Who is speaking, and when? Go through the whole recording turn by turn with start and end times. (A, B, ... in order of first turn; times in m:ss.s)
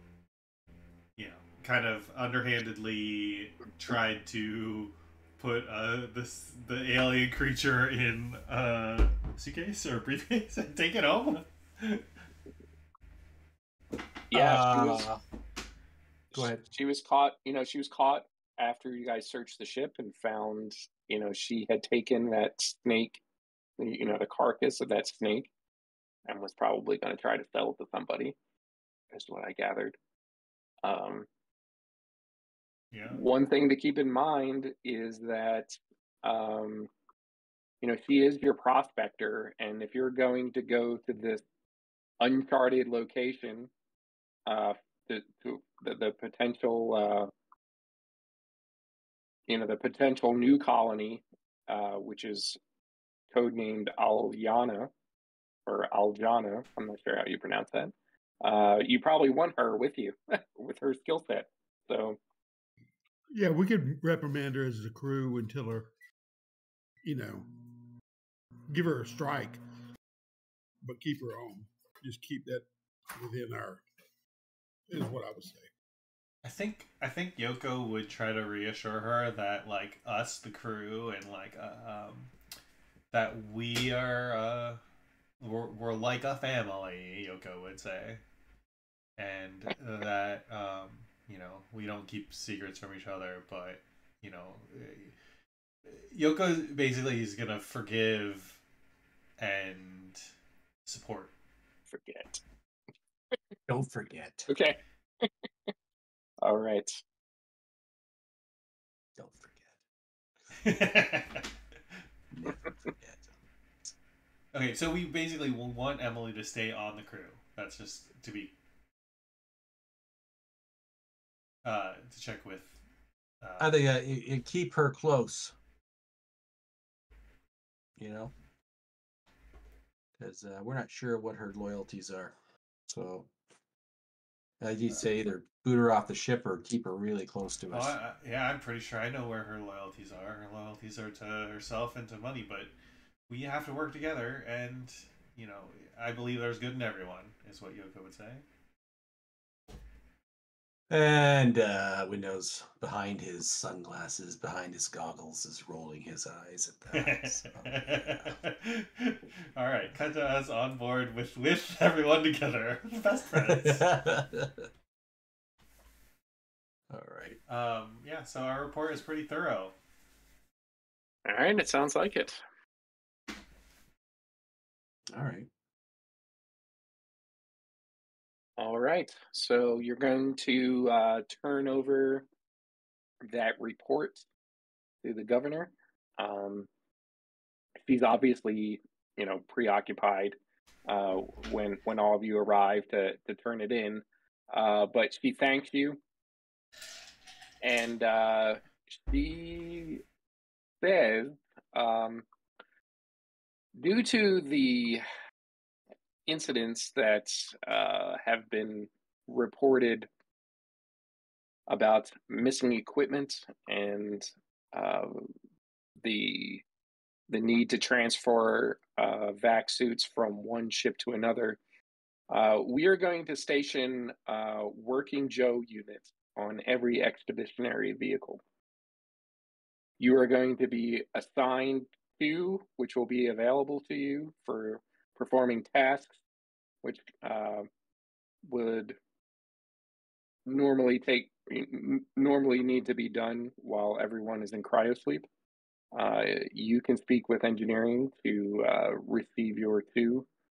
0:01.2-0:12.1 A
0:14.3-0:15.1 B
0:14.3-0:15.2 C
0:16.3-0:16.6 C
0:16.4-0:23.2 B
0:23.8-0:25.5 B
0:26.2-0:28.4 B
0:29.1-0:30.0 B
0:30.8-0:31.3 B
0:32.9-0:33.2 A
0:33.1-0:36.9 B
0:37.8-0:41.4 B
0:42.2-0:43.7 B
0:44.5-0:47.3 B
0:49.5-0:52.6 B
0:53.3-0:54.9 B
0:55.6-1:02.2 B
1:03.3-1:05.9 D
1:07.0-1:07.5 D
1:08.7-1:09.6 D
1:10.8-1:13.8 D
1:14.9-1:15.7 D
1:16.4-1:22.3 A
1:23.1-1:24.8 A
1:25.4-1:28.2 A
1:29.2-1:35.1 A
1:35.8-1:38.6 A
1:39.4-1:40.2 A
1:40.8-1:41.3 A
1:41.9-1:42.4 B
1:43.7-1:44.5 C
1:44.5-1:45.3 B
1:46.4-1:47.0 B
1:49.2-1:49.7 C
1:50.6-1:51.5 A
1:52.3-1:53.3 C
1:54.5-1:58.5 A
2:01.6-2:02.8 A
2:03.4-2:03.8 A
2:03.6-2:05.5 C
2:08.0-2:08.3 C
2:10.2-2:12.3 C
2:12.9-2:13.3 C
2:14.6-2:17.9 C
2:17.7-2:22.7 A
2:23.3-2:28.4 A
2:30.9-2:37.7 C
2:36.9-2:43.9 A
2:43.3-2:44.7 C
2:46.9-2:47.4 C
2:47.5-2:49.7 A
2:51.2-2:52.4 B
2:55.1-2:55.5 C
2:58.6-3:02.2 B
3:03.2-3:04.2 B
3:05.0-3:06.7 B
3:07.9-3:16.0 B
3:17.6-3:20.0 B
3:20.8-3:22.2 B
3:23.8-3:25.0 B
3:26.2-3:30.1 B
3:31.7-3:35.3 B
3:36.0-3:36.6 B
3:37.3-3:41.6 B
3:42.3-3:48.4 B
3:50.0-3:56.2 B
3:56.8-3:57.7 B
3:58.4-3:59.0 B
4:00.4-4:05.3 B
4:05.9-4:10.3 B